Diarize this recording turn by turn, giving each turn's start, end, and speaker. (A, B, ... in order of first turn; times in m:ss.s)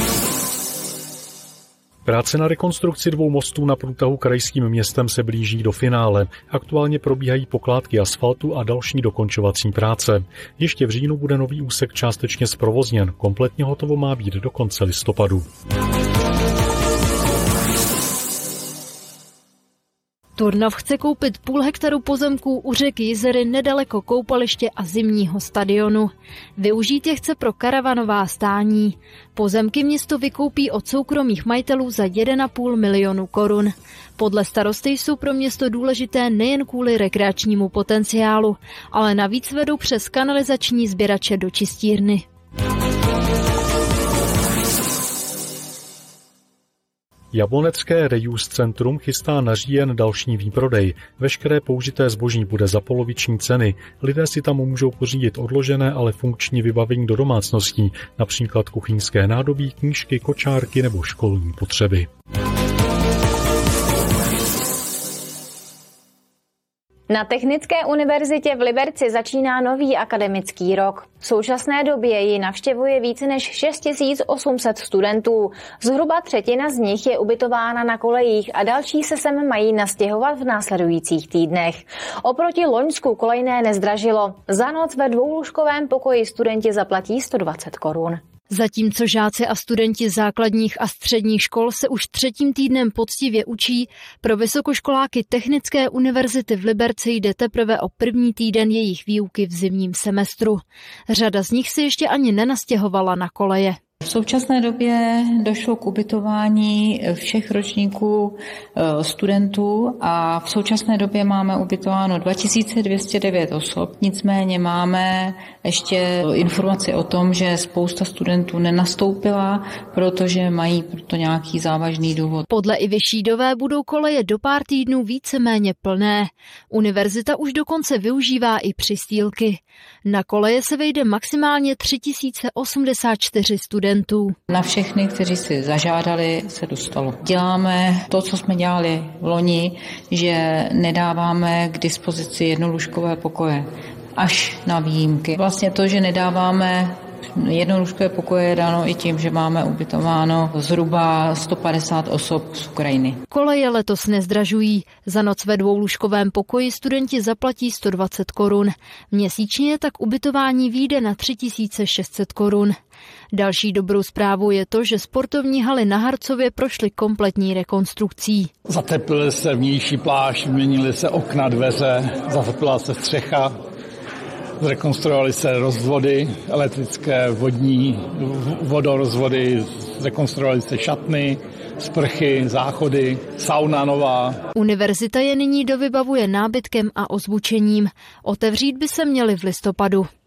0:02.0-0:15.4 A
0:20.4-0:42.2 B
0:47.3-1:02.1 A
1:07.1-1:28.2 C
1:28.5-1:43.8 B
1:44.0-2:02.4 D
2:02.5-2:14.4 B
2:14.5-2:33.2 D
2:33.3-2:42.7 B
2:43.3-2:48.5 B
2:48.6-2:53.5 E
2:54.6-3:04.4 E
3:04.6-3:10.1 B